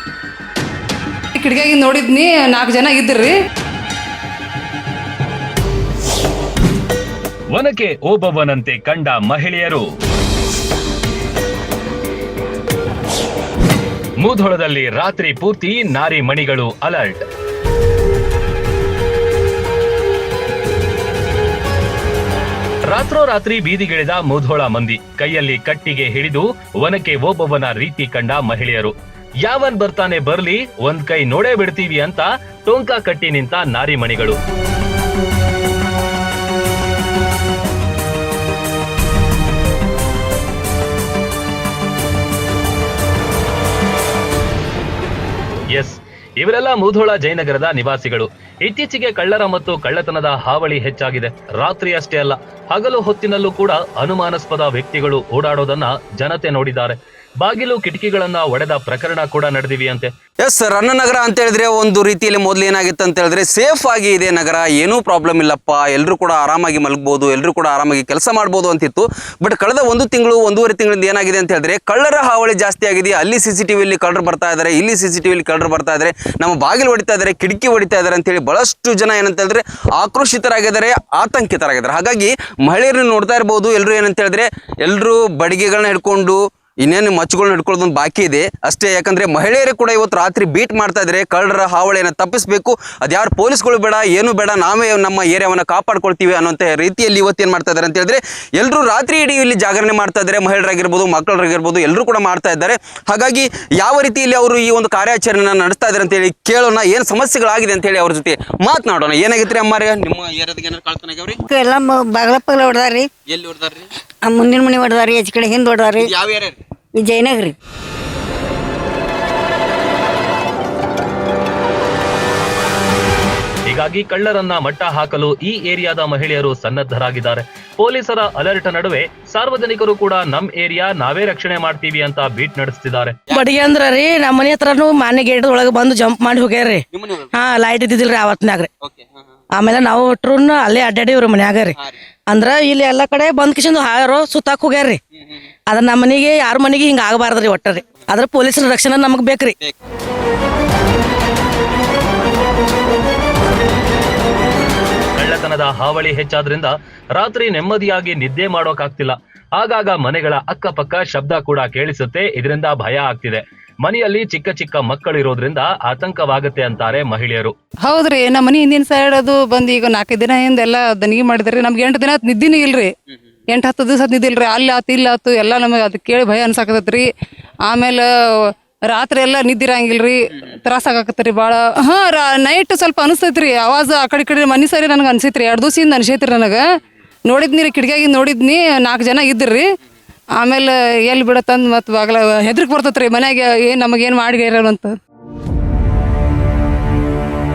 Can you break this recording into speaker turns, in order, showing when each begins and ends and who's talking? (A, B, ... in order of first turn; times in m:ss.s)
0:01.4-0:03.4 A
0:07.5-0:09.9 B
0:14.2-0:17.2 B
0:22.9-0:34.4 B
0:45.7-1:00.1 B
1:00.4-1:51.4 C
1:51.4-1:53.1 D
1:53.3-1:53.9 C
1:54.2-1:56.1 D
1:56.2-1:56.5 C
1:57.0-1:57.6 D
2:03.7-2:13.2 B
2:13.3-2:18.7 E
2:19.6-2:25.0 E
2:25.7-2:29.6 E
2:35.2-2:47.5 B
2:47.9-2:52.9 A
2:53.5-2:57.1 A
2:57.7-2:58.1 A
2:58.9-3:09.6 A
3:10.4-3:15.0 A